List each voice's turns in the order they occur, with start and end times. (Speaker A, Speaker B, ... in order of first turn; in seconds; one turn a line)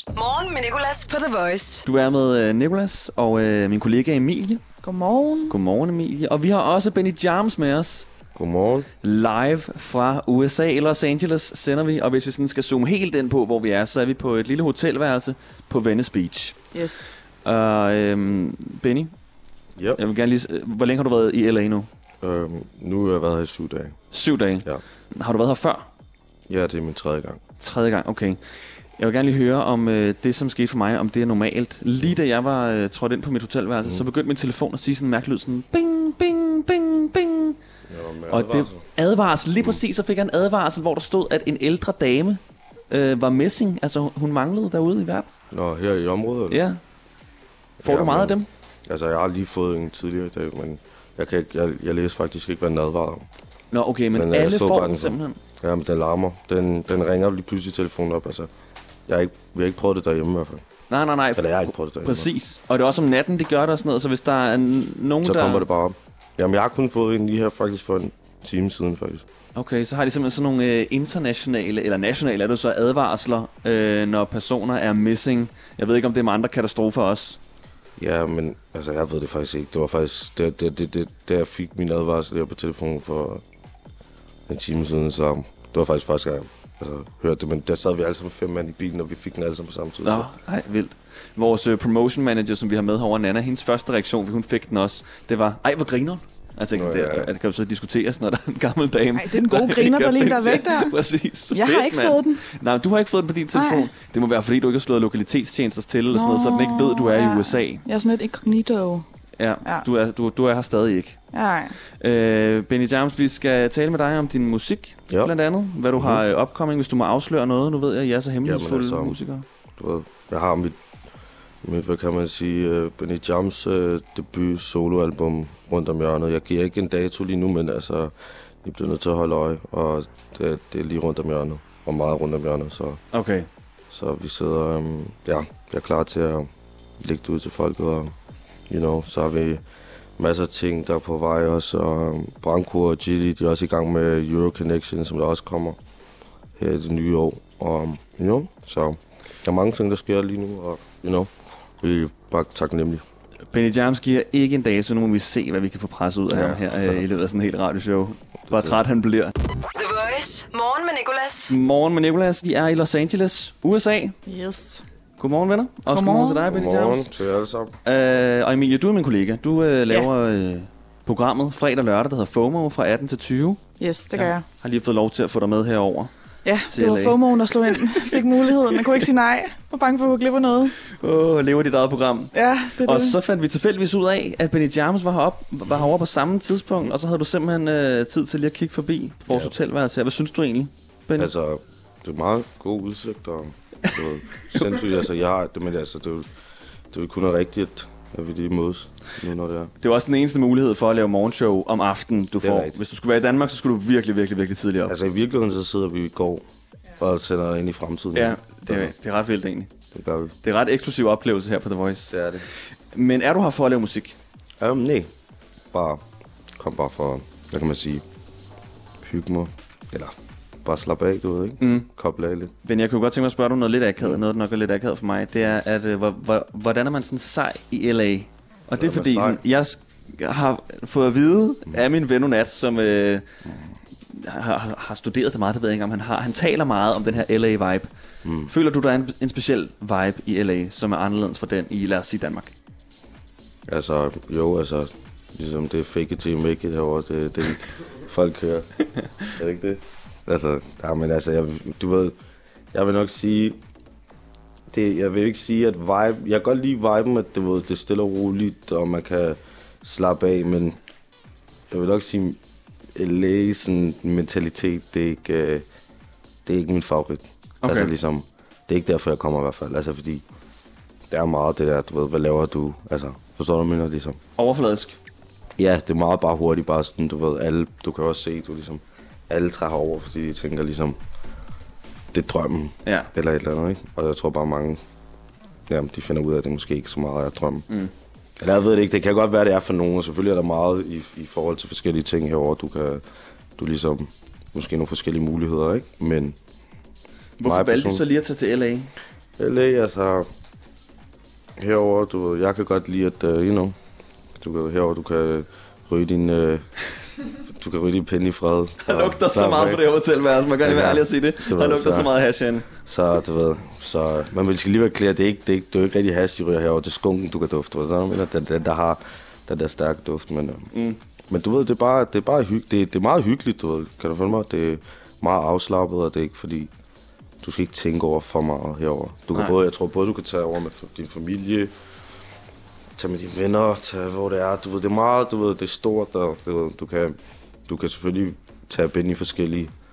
Speaker A: 0.1-1.8
Speaker B: 1.8-4.6
Speaker C: 4.8-5.5
Speaker B: 5.5-8.1
Speaker D: 8.3-8.9
Speaker B: 9.0-16.6
Speaker C: 16.7-17.1
Speaker B: 17.4-19.1
Speaker B: 20.0-21.9
Speaker D: 22.2-24.0
Speaker B: 24.1-25.9
Speaker D: 26.5-27.4
Speaker B: 27.6-28.4
Speaker B: 29.0-37.6
Speaker D: 37.9-38.8
Speaker B: 38.3-45.3
Speaker D: 45.5-46.6
Speaker B: 46.5-46.8
Speaker D: 47.8-53.3
Speaker B: 47.8-48.5
Speaker B: 53.7-55.4
Speaker D: 54.1-58.5
Speaker D: 59.1-60.6
Speaker B: 60.9-65.7
Speaker D: 61.4-62.3
Speaker D: 65.2-69.2
Speaker B: 69.5-77.4
Speaker D: 78.0-83.4
Speaker D: 84.5-90.3
Speaker B: 90.0-107.8
Speaker D: 96.7-97.3
Speaker C: 99.1-100.9
Speaker C: 101.5-102.4
Speaker C: 103.5-103.9
Speaker C: 106.1-109.0
Speaker B: 109.4-111.2
Speaker C: 111.3-111.8
Speaker B: 112.0-119.4
Speaker D: 115.1-115.3
Speaker D: 115.9-116.2
Speaker D: 118.4-119.2
Speaker D: 119.8-120.8
Speaker D: 121.6-133.0
Speaker B: 133.1-133.5
Speaker D: 133.9-136.5
Speaker D: 137.0-138.1
Speaker D: 138.7-139.6
Speaker D: 140.2-145.8
Speaker D: 146.6-153.0
Speaker B: 153.5-159.3
Speaker D: 156.3-157.0
Speaker D: 158.5-158.8
Speaker A: 159.7-161.6
Speaker B: 161.5-164.2
Speaker C: 164.2-164.8
Speaker B: 165.2-167.1
Speaker C: 165.9-166.4
Speaker D: 166.5-167.7
Speaker B: 167.8-173.6
Speaker C: 173.8-174.4
Speaker B: 174.1-176.1
Speaker C: 176.4-180.7
Speaker B: 176.7-178.2
Speaker B: 178.7-179.0
Speaker B: 180.9-191.3
Speaker C: 182.3-183.2
Speaker D: 191.2-196.3
Speaker B: 194.5-194.8
Speaker D: 196.9-199.7
Speaker B: 199.8-204.9
Speaker D: 202.4-202.8
Speaker D: 204.9-206.4
Speaker D: 207.0-208.9
Speaker B: 208.1-209.7
Speaker D: 209.9-210.3
Speaker B: 210.4-212.1
Speaker D: 212.1-212.4
Speaker B: 212.9-214.2
Speaker D: 214.6-215.1
Speaker D: 215.7-216.0
Speaker D: 216.6-218.0
Speaker D: 219.0-222.5
Speaker B: 221.6-221.9
Speaker B: 222.6-233.3
Speaker D: 228.7-229.4
Speaker B: 234.1-237.9
Speaker D: 238.2-238.5
Speaker B: 238.4-242.5
Speaker D: 243.7-248.7
Speaker B: 249.0-249.3
Speaker D: 249.3-252.2
Speaker D: 252.7-253.6
Speaker D: 254.7-260.8
Speaker D: 261.7-262.4
Speaker D: 262.9-265.6
Speaker D: 266.4-270.2
Speaker B: 267.6-267.9
Speaker D: 271.1-274.2
Speaker B: 274.4-275.0
Speaker D: 275.6-281.0
Speaker D: 282.1-284.8
Speaker B: 282.8-283.1
Speaker D: 285.7-287.7
Speaker D: 288.4-293.0
Speaker D: 293.6-296.4
Speaker B: 297.4-298.9
Speaker D: 297.4-298.0
Speaker D: 299.4-300.3
Speaker D: 301.6-303.8
Speaker D: 304.4-306.6
Speaker D: 307.5-309.9
Speaker B: 308.8-312.7
Speaker D: 310.6-312.1
Speaker D: 312.8-320.7
Speaker B: 320.7-321.0
Speaker D: 321.3-326.7
Speaker D: 327.4-331.7
Speaker D: 332.9-339.7